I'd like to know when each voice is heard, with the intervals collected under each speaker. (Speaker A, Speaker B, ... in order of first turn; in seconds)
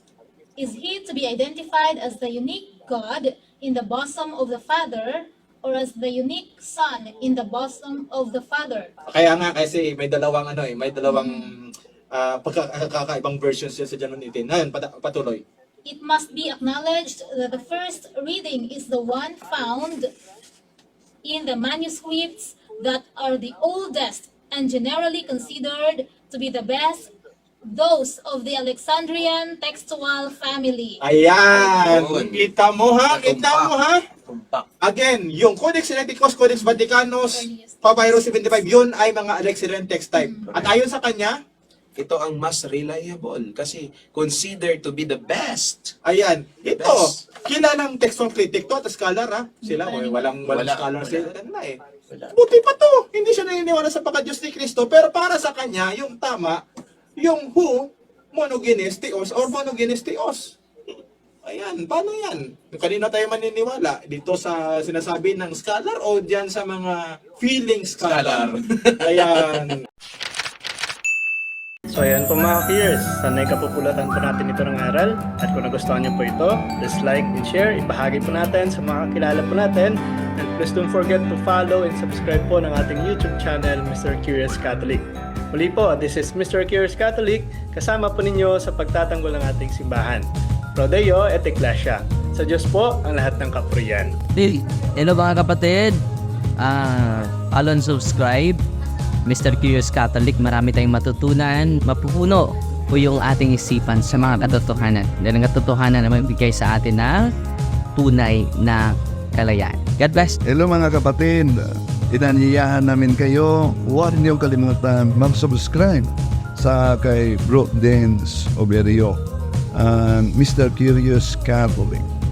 Speaker A: 0.6-8.9, 15.9-20.1, 21.2-27.1, 27.7-31.0, 37.4-38.5, 49.9-50.3
Speaker B: 9.1-15.4, 31.0-34.0, 34.8-41.4, 46.0-51.8, 52.3-56.6, 57.2-60.6, 61.4-69.8
Speaker C: 31.5-32.5, 33.0-34.6, 40.5-40.7, 42.0-45.9, 46.7-47.2, 50.4-51.3, 68.0-69.7
Speaker D: 71.9-94.2
Speaker E: 94.4-96.0, 96.6-98.6, 99.2-107.3, 108.0-110.4
Speaker F: 110.4-119.2, 119.7-122.1